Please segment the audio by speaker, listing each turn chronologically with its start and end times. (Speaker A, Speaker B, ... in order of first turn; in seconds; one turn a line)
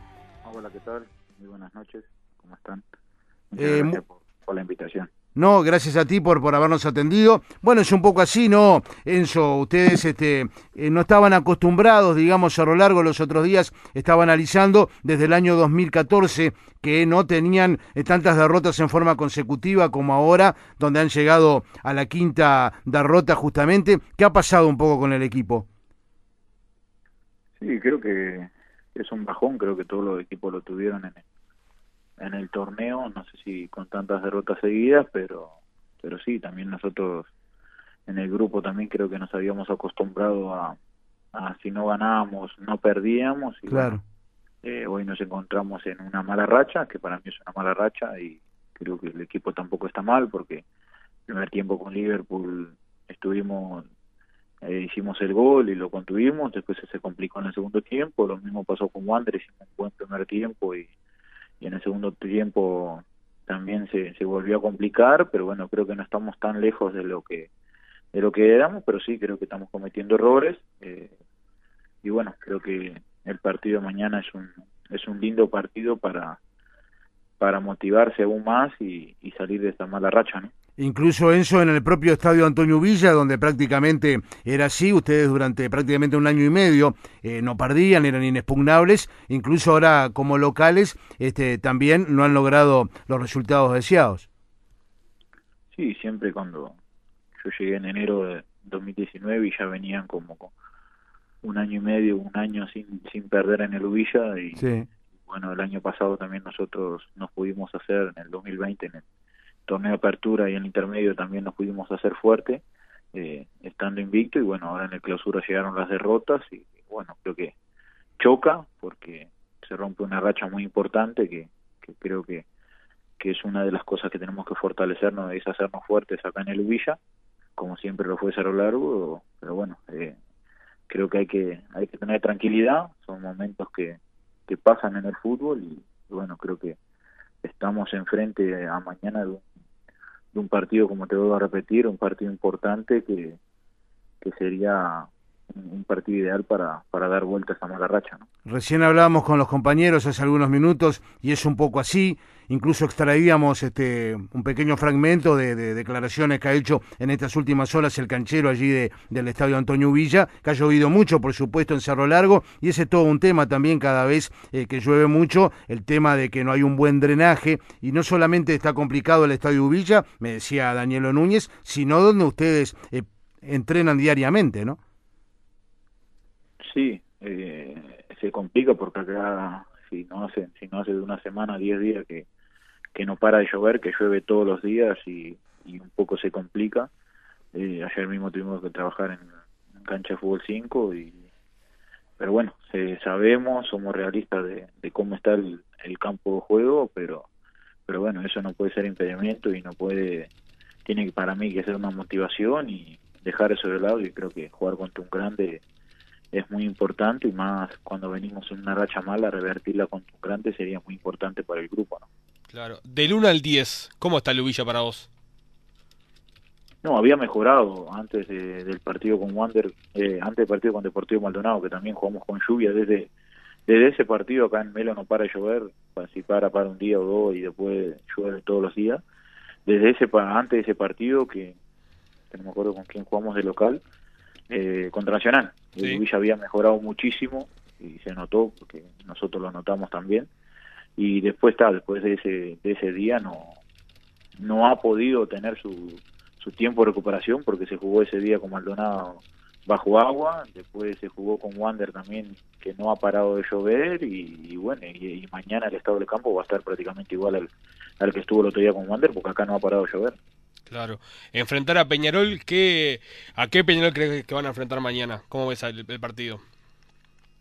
Speaker A: 0.4-2.9
Speaker A: 3.5-5.1
Speaker B: 3.6-4.0
Speaker B: 5.4-25.7
Speaker A: 27.6-31.2
Speaker A: 32.2-37.3
Speaker A: 38.1-40.8
Speaker A: 41.3-44.0
Speaker B: 43.7-44.0
Speaker A: 44.6-50.6
Speaker A: 51.3-53.9
Speaker A: 54.6-60.9
Speaker A: 61.6-67.5
Speaker A: 68.1-71.2
Speaker A: 72.0-76.4
Speaker A: 77.4-80.5
Speaker B: 80.8-94.3
Speaker A: 95.7-96.8
Speaker A: 97.4-100.5
Speaker A: 101.4-104.7
Speaker B: 104.6-104.9
Speaker A: 105.3-109.0
Speaker A: 109.7-117.5
Speaker A: 118.2-122.5
Speaker A: 123.2-127.0
Speaker A: 127.6-130.2
Speaker A: 130.9-136.8
Speaker A: 137.4-139.5
Speaker A: 140.3-143.4
Speaker A: 144.2-148.3
Speaker B: 148.5-174.8
Speaker A: 176.6-182.3
Speaker A: 182.9-186.9
Speaker A: 187.5-189.3
Speaker A: 189.8-191.2
Speaker A: 192.2-197.3
Speaker A: 197.9-200.3
Speaker A: 200.8-205.6
Speaker A: 206.3-212.1
Speaker C: 212.5-215.1
Speaker A: 216.8-223.1
Speaker A: 223.7-229.0
Speaker A: 229.7-231.6
Speaker A: 232.3-233.8
Speaker A: 234.5-240.3
Speaker A: 241.0-243.6
Speaker A: 244.4-260.2
Speaker C: 260.7-266.4